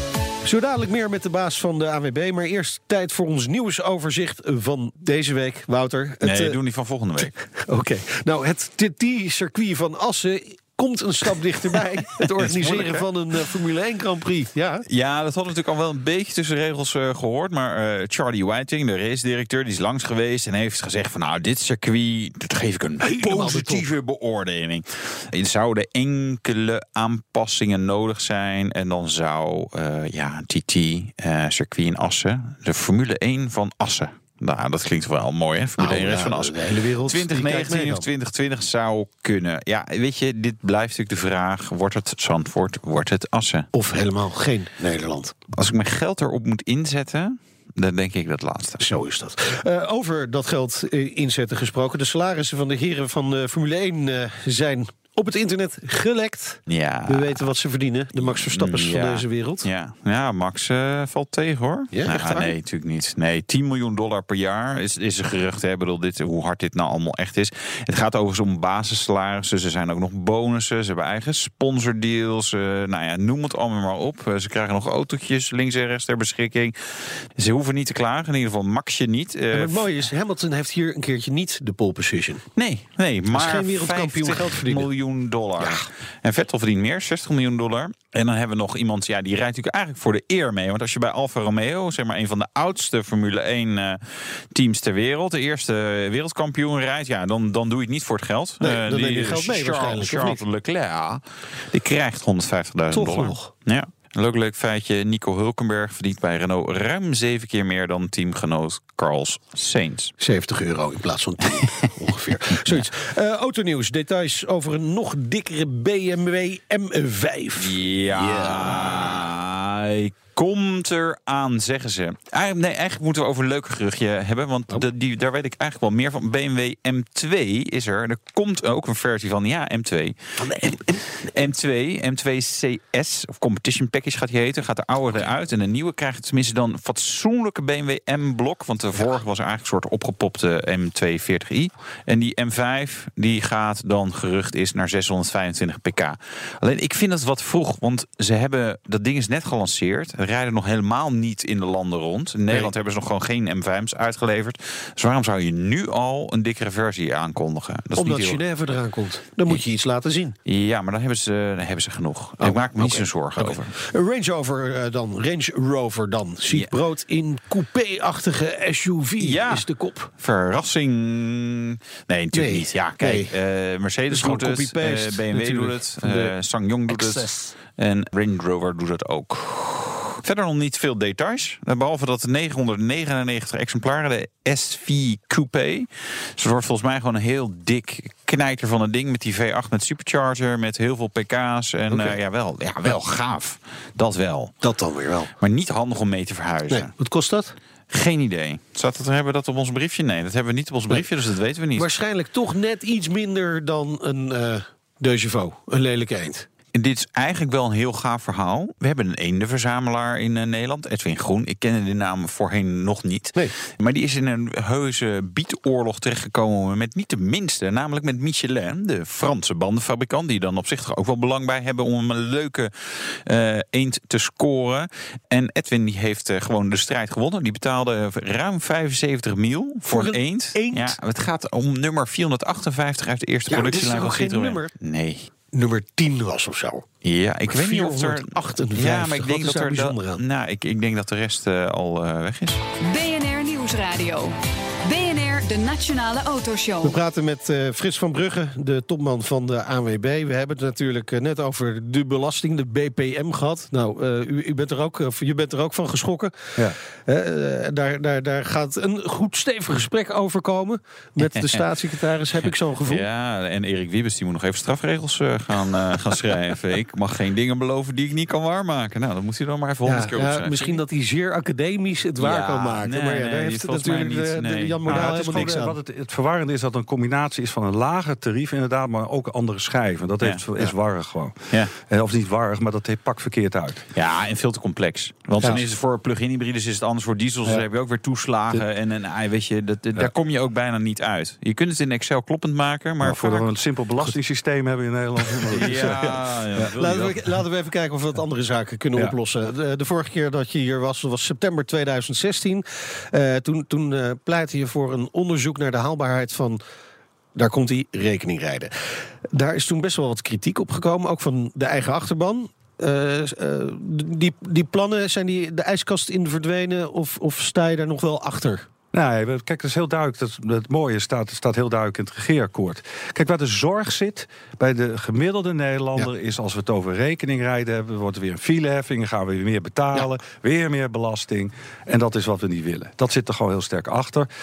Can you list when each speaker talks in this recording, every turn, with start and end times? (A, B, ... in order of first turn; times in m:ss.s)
0:00.4-0:06.6 A
0:06.2-0:07.3 B
0:07.2-0:14.8 A
0:12.2-0:13.1 B
0:14.9-0:43.7 B
0:23.0-0:23.9 A
0:35.8-0:38.1 A
0:43.7-0:45.3 A
0:45.5-0:48.9 B
0:48.8-0:59.7 A
0:56.7-0:57.5 B
0:58.2-1:19.9 B
1:01.9-1:02.5 A
1:19.5-1:22.4 A
1:22.6-1:50.1 B
1:23.3-1:24.9 A
1:25.6-1:25.8 A
1:38.6-1:40.4 A
1:42.9-1:43.5 A
1:50.2-1:57.8 A
1:57.6-2:38.4 B
2:10.4-2:10.8 A
2:38.0-2:40.4 A
2:40.5-2:43.7 B
2:42.4-2:50.1 A
2:49.2-2:49.7 B
2:50.2-3:14.6 B
2:52.3-2:53.3 A
2:54.1-2:56.3 A
2:56.9-2:57.5 A
3:11.9-3:12.2 A
3:14.6-3:15.3 A
3:15.4-3:16.9 B
3:16.7-3:17.6 A
3:17.9-3:22.0 B
3:21.8-3:26.5 A
3:26.7-3:55.3 B
3:49.9-3:51.0 A
3:53.5-3:54.7 A
3:55.5-3:56.8 A
3:57.0-4:02.6 B
3:57.5-4:00.2 A
4:02.8-4:07.0 C
4:06.8-4:23.1 A
4:21.2-4:21.7 B
4:22.4-4:30.8 B
4:29.8-4:35.8 A
4:32.2-4:35.6 B
4:34.9-4:43.8 D
4:44.0-4:53.5 B
4:53.0-4:56.6 D
4:55.5-4:56.0 A
4:55.5-4:57.2 B
4:56.7-5:06.6 A
5:07.4-5:08.7 A
5:09.3-5:18.7 A
5:18.9-5:34.3 D